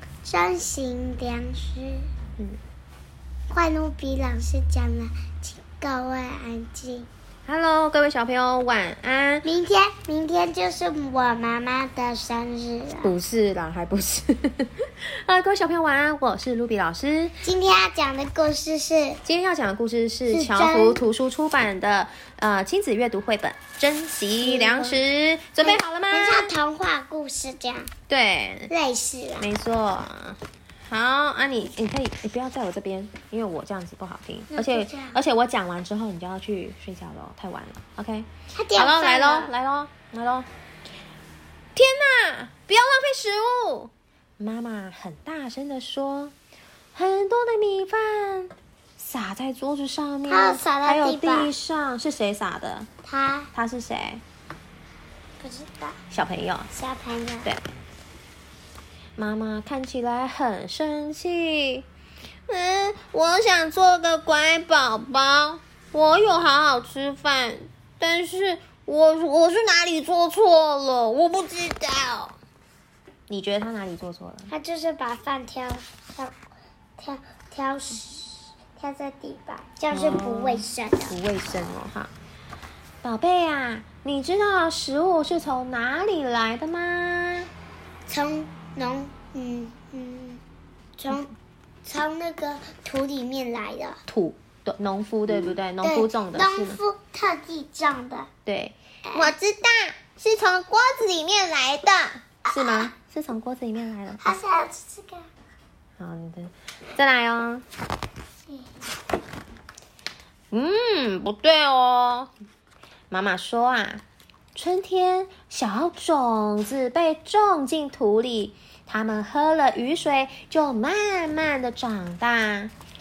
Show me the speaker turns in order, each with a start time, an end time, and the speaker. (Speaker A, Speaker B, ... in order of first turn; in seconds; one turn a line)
Speaker A: 0.2-2.1
Speaker A: 3.5-7.1
Speaker B: 7.5-9.5
Speaker A: 9.4-13.1
Speaker B: 13.0-17.4
Speaker A: 17.4-19.2
Speaker B: 19.2-26.5
Speaker A: 20.3-21.0
Speaker A: 24.4-25.0
Speaker A: 25.6-27.9
Speaker B: 28.1-28.7
Speaker A: 28.7-29.5
Speaker B: 29.4-40.5
Speaker A: 34.5-35.2
Speaker A: 38.5-39.5
Speaker B: 41.8-46.3
Speaker B: 46.9-52.9
Speaker A: 50.3-51.5
Speaker A: 53.0-53.5
Speaker B: 53.5-54.2
Speaker A: 55.4-56.0
Speaker B: 56.1-56.7
Speaker A: 56.7-57.5
Speaker B: 59.2-61.9
Speaker B: 62.5-72.3
Speaker B: 73.3-74.5
Speaker A: 74.5-76.3
Speaker A: 77.0-81.2
Speaker B: 79.9-82.1
Speaker B: 83.0-87.5
Speaker A: 88.1-90.4
Speaker A: 91.0-91.3
Speaker A: 91.8-94.0
Speaker B: 94.1-96.8
Speaker A: 95.8-98.3
Speaker B: 98.5-104.3
Speaker A: 99.1-99.3
Speaker A: 102.4-102.9
Speaker A: 104.2-105.3
Speaker B: 106.0-107.6
Speaker A: 108.5-108.8
Speaker B: 110.5-112.3
Speaker B: 113.1-114.0
Speaker B: 114.5-122.7